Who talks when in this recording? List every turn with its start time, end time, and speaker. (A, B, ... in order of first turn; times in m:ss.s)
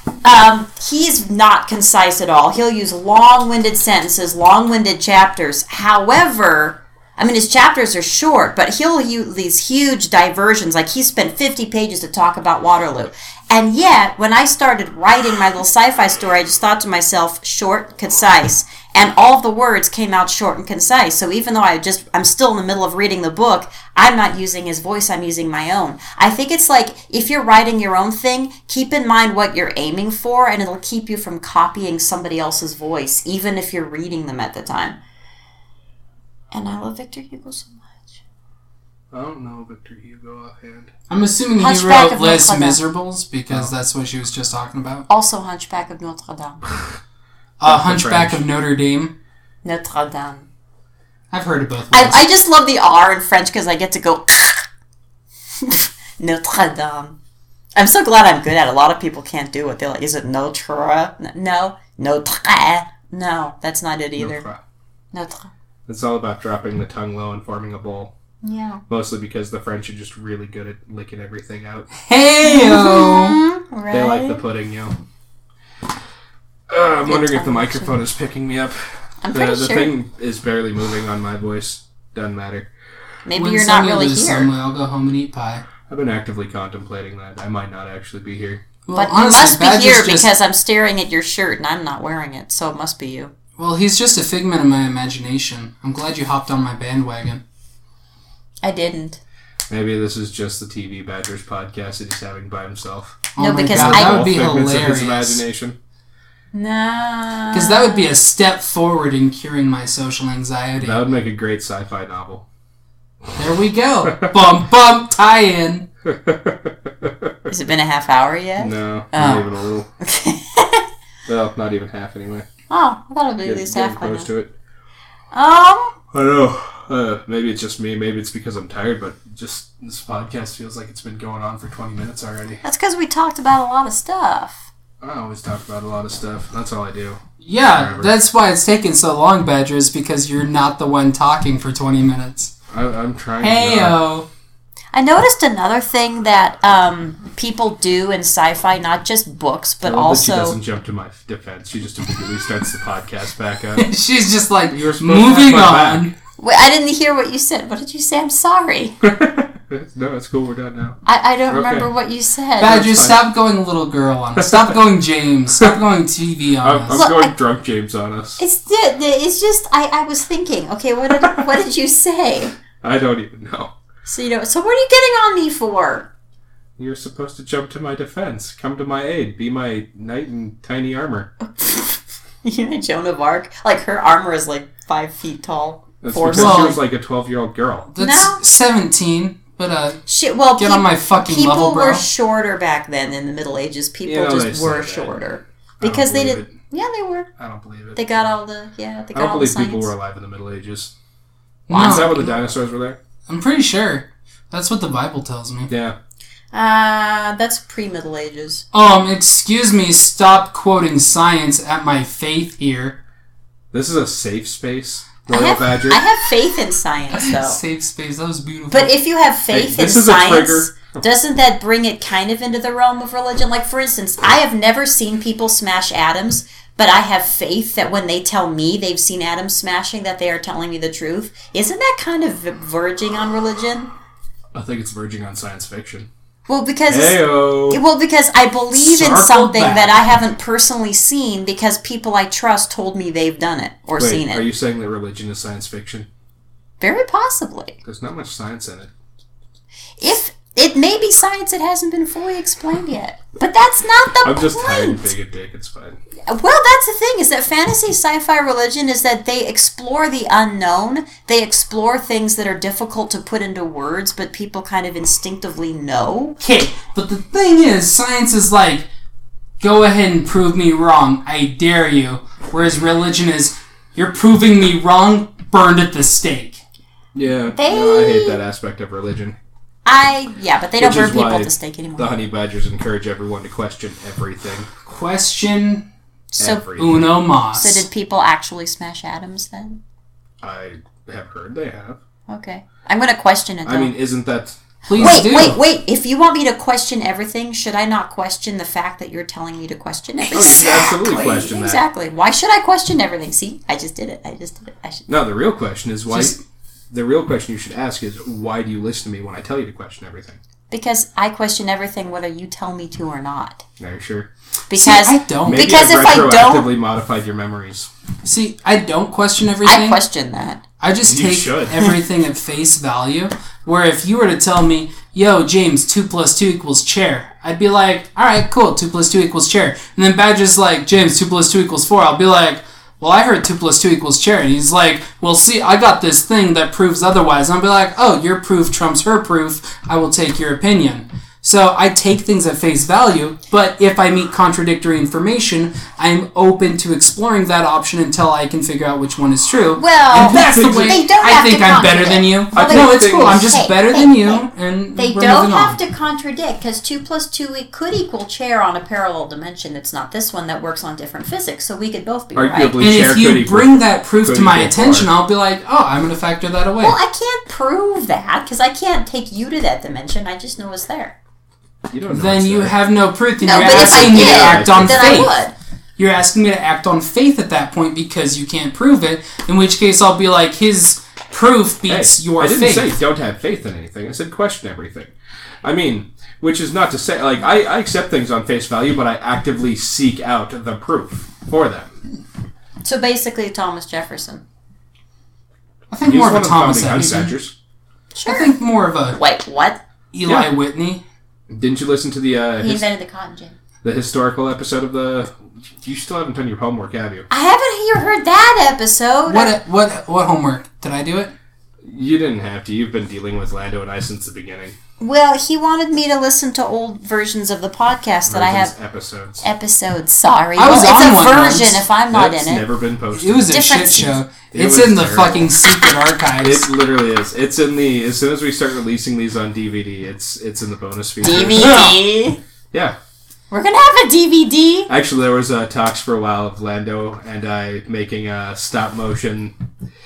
0:00.2-0:35.0 A
0:36.5-0:38.2 A
0:39.1-0:40.9 B
0:41.1-0:45.1 C
0:41.6-0:42.8 A
0:45.1-0:46.6 A
0:47.6-0:49.1 C
0:47.6-0:48.4 B
0:49.6-0:50.5 A
0:51.3-0:52.3 C
0:51.9-0:54.7 A
0:55.6-0:57.2 A
0:57.8-1:04.4 A
1:04.2-1:04.6 B
1:05.1-1:05.5 A
1:05.9-1:08.1 B
1:08.4-1:08.8 A
1:08.9-1:11.9 B
1:12.0-1:13.4 C
1:12.4-1:14.4 A
1:13.9-1:15.0 B
1:16.7-1:18.8 B
1:17.1-1:18.0 A
1:19.2-1:19.9 A
1:19.3-1:22.7 B
1:23.3-1:24.5 A
1:23.3-1:25.7 C
1:25.9-1:28.6 B
1:28.9-1:30.3 C
1:28.9-1:33.3 A
1:33.6-1:37.4 C
1:38.6-1:39.2 A
1:39.7-1:45.8 B
1:43.4-1:45.4 C
1:43.4-1:44.3 A
1:46.5-1:48.1 A
1:47.5-1:51.0 C
1:50.8-1:52.4 B
1:53.4-1:55.9 C
1:54.0-1:54.3 B
1:56.0-1:57.5 B
1:57.5-1:59.5 A
1:58.6-1:59.9 B
2:00.0-2:00.9 A
2:01.3-2:02.5 B
2:02.7-2:04.3 A
2:03.4-2:04.5 B
2:05.3-2:06.0 A
2:06.1-2:12.6 B
2:12.6-2:14.7 A
2:15.0-2:18.2 B
2:17.4-2:22.6 C
2:22.7-2:24.0 B
2:23.4-2:24.3 C
2:24.9-2:30.6 A
2:29.8-2:33.9 B
2:33.8-2:36.1 C
2:34.7-2:36.1 B
2:36.4-2:39.0 A
2:39.0-2:41.9 B
2:41.0-2:43.0 A
2:42.6-2:47.0 C
2:42.8-2:43.2 B
2:44.4-2:44.8 B
2:46.6-2:48.4 B
2:46.9-2:47.3 A
2:48.4-2:52.6 A
2:51.2-2:51.4 B
2:52.8-2:53.7 B
2:54.1-2:56.1 A
2:56.8-3:01.3 B
3:01.4-3:06.8 A
3:06.0-3:07.9 B
3:06.3-3:06.8 C
3:07.9-3:10.0 C
3:08.0-3:08.4 A
3:10.1-3:17.3 A
3:10.6-3:12.0 C
3:14.0-3:15.2 B
3:15.8-3:16.5 B
3:17.4-3:18.3 B
3:18.0-3:19.9 A
3:19.1-3:20.9 B
3:21.7-3:22.2 C
3:21.7-3:22.3 A
3:21.7-3:23.0 B
3:23.3-3:25.7 C
3:25.7-3:26.0 B
3:26.5-3:28.6 A
3:28.7-3:33.0 C
3:33.7-3:36.0 B
3:35.3-3:37.6 A
3:37.1-3:38.9 C
3:38.7-3:53.9 A
3:39.5-3:41.0 B
3:54.5-3:56.1 B
3:56.5-4:04.4 A
3:56.9-3:57.8 B
3:58.8-4:00.0 C
4:04.0-4:06.1 B
4:06.8-4:07.8 A
4:07.8-4:08.9 B
4:10.0-4:15.0 A
4:14.2-4:16.0 B
4:16.3-4:26.4 A
4:26.4-4:28.9 C
4:29.6-4:36.6 C
4:37.2-4:39.4 B
4:37.5-4:38.4 A
4:39.9-4:42.1 A
4:40.8-4:44.7 B
4:44.9-4:45.9 C
4:46.3-4:46.7 A
4:46.4-4:47.1 B
4:46.8-4:47.9 C
4:47.5-4:49.8 A
4:50.4-4:52.0 B
4:52.3-4:53.9 A
4:53.6-4:55.3 B
4:54.9-4:55.6 C
4:55.0-5:05.1 A
5:00.3-5:01.2 C
5:00.3-5:01.8 B
5:05.1-5:06.4 B
5:06.1-5:06.4 C
5:06.9-5:10.4 B
5:10.7-5:13.6 A
5:13.8-5:14.3 B
5:14.7-5:16.7 A
5:14.7-5:15.7 C
5:15.4-5:17.9 B
5:18.2-5:20.0 C
5:19.6-5:20.6 A
5:20.8-5:55.8 C
5:21.0-5:21.8 B
5:49.8-5:54.4 A
5:50.2-5:51.0 B
5:52.5-5:53.5 B
5:55.0-6:02.8 A
6:02.4-6:05.1 B
6:02.8-6:07.0 C
6:06.8-6:11.2 A
6:11.9-6:12.8 B
6:12.1-6:15.4 C
6:13.4-6:15.5 A
6:13.5-6:15.3 B
6:16.0-6:23.0 C
6:21.9-6:25.1 B
6:25.6-6:31.9 B
6:32.8-6:34.4 A
6:35.9-6:37.3 C
6:36.1-6:37.5 B
6:38.1-6:38.5 A
6:38.3-6:39.2 C
6:39.1-6:39.8 A
6:40.1-6:41.0 C
6:40.2-6:40.5 B
6:41.5-6:42.9 B
6:42.6-6:43.6 A
6:43.8-6:47.3 B
6:47.3-6:49.6 A
6:49.3-6:51.3 C
6:51.8-6:54.8 B
6:55.0-6:58.7 A
6:58.3-6:59.5 B
6:59.4-7:02.6 A
7:00.6-7:01.8 C
7:02.1-7:05.5 B
7:03.1-7:06.7 C
7:03.5-7:04.2 A
7:06.4-7:11.8 B
7:11.2-7:12.4 A
7:11.3-7:12.0 C
7:13.5-7:14.9 A
7:14.9-7:19.5 B